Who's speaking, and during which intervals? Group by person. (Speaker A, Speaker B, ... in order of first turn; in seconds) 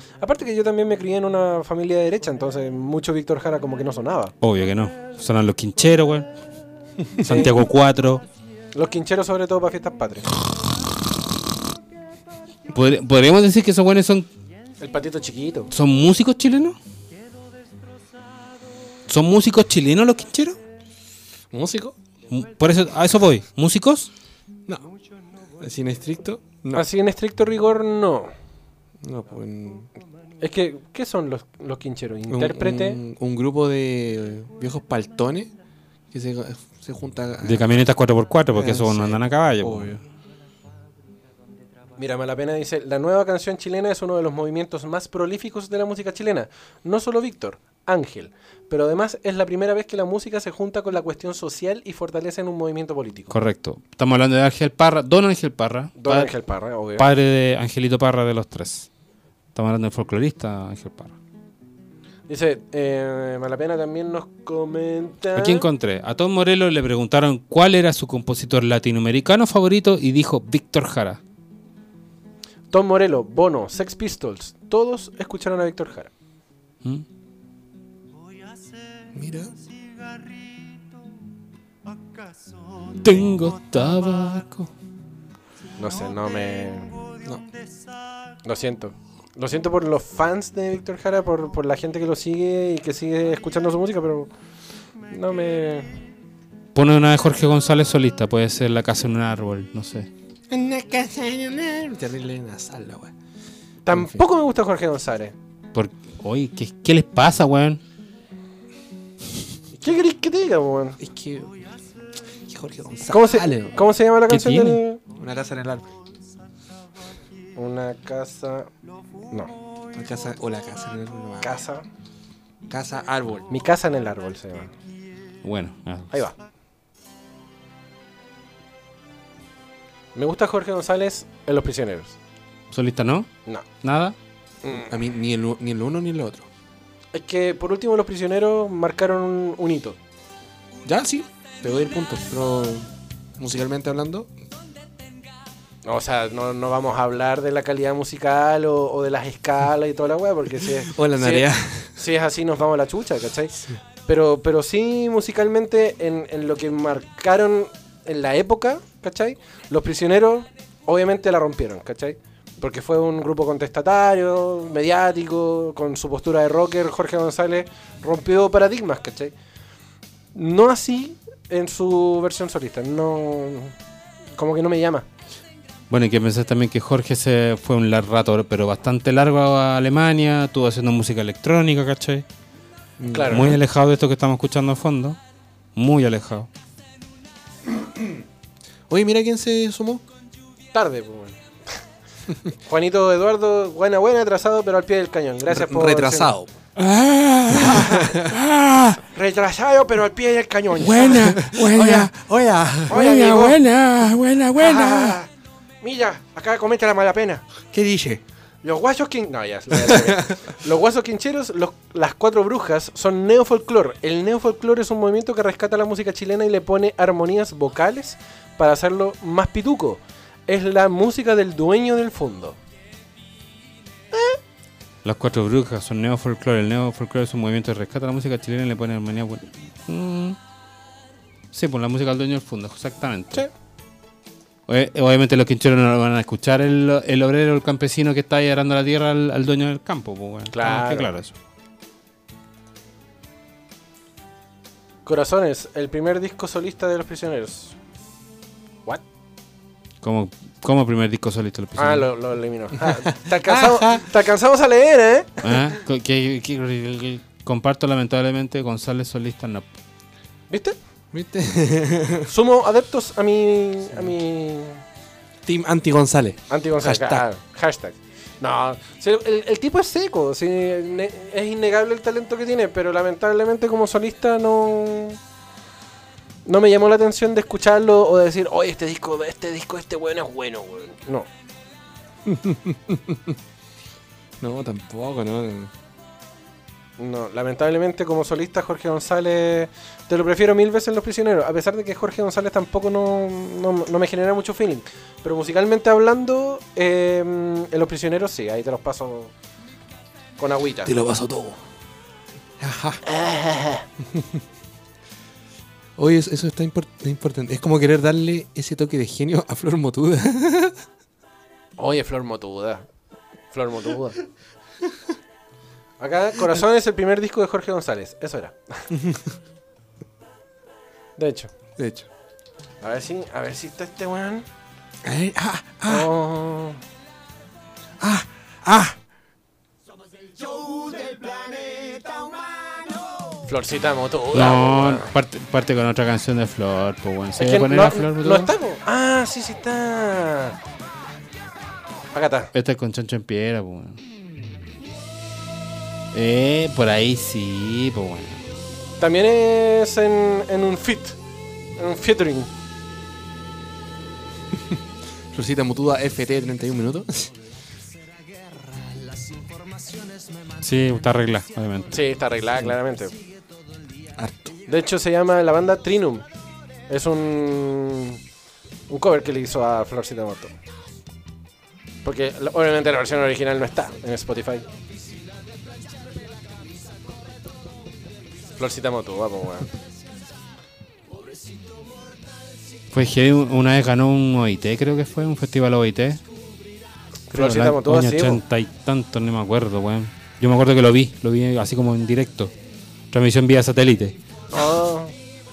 Speaker A: 0.2-4.3, 7.2-7.5, 8.8-10.3, 14.8-15.7, 26.7-28.3, 30.4-33.0, 42.0-53.3, 56.0-57.1, 62.3-65.7, 72.7-76.1, 85.8-87.1, 88.5-94.3, 95.1-95.9, 103.9-105.3, 109.8-111.0, 113.1-115.0, 117.6-118.7, 121.4-121.8, 123.5-124.7, 130.2-132.2, 134.6-134.9, 137.1-140.0, 145.8-153.6, 154.1-169.3, 170.3-173.8, 174.4-175.1, 183.1-183.6, 190.7-191.4, 192.7-196.3, 197.6-198.2, 199.1-201.4, 202.9-203.6, 204.6-205.3, 205.8-207.4, 208.6-222.6, 224.1-224.4, 240.5-241.1, 245.1-247.7, 251.8-255.5, 260.5-260.8, 262.3-264.8, 266.5-275.2, 276.5-281.3, 287.0-299.3, 300.4-300.9, 303.0-303.9, 311.8-312.9, 313.5-314.2, 316.0-318.9, 321.2-321.5, 322.8-324.5, 325.9-326.8, 333.5-335.1, 337.4-340.6, 342.1-342.5, 349.0-351.2, 351.8-352.5, 361.9-363.1, 364.7-366.2, 366.9-368.2, 368.9-370.5, 372.0-374.7, 378.6-379.7, 387.3-388.4, 394.5-395.1
Speaker B: 4.4-6.3, 7.2-8.2, 12.7-14.3, 15.7-16.8, 19.1-20.6, 22.3-24.1, 37.4-40.0, 53.3-56.3, 57.0-58.9, 59.5-61.1, 65.3-71.2, 82.9-84.7, 96.8-100.1, 105.7-107.8, 114.3-114.8, 125.4-126.2, 132.7-133.3, 133.8-134.2, 175.9-182.2, 183.3-185.2, 185.8-186.5, 200.9-202.1, 225.0-230.4, 231.5-233.5, 234.7-241.3, 250.0-252.1, 255.4-259.6, 334.3-338.5, 342.5-344.0, 346.1-348.4, 360.6-361.9, 382.9-386.2, 387.3-392.5, 393.1-394.2
Speaker C: 21.5-21.9, 25.6-26.9, 29.0-29.9, 32.3-35.5, 36.1-37.8, 38.5-40.0, 79.1-79.5, 100.5-103.1, 111.0-111.6, 112.5-113.8, 115.1-115.9, 119.9-121.6, 122.7-123.5, 134.8-136.5, 140.8-144.3, 150.7-151.9, 183.0-183.6, 188.9-190.0, 195.5-199.0, 200.8-205.2, 207.7-208.2, 209.7-210.4, 253.1-254.0, 261.1-262.3, 265.5-267.3, 282.3-283.4, 284.4-285.7, 300.9-301.6, 302.6-303.0, 306.0-310.8, 318.9-319.2, 321.8-322.1, 325.0-326.1, 328.0-329.0, 355.3-357.3, 364.2-364.6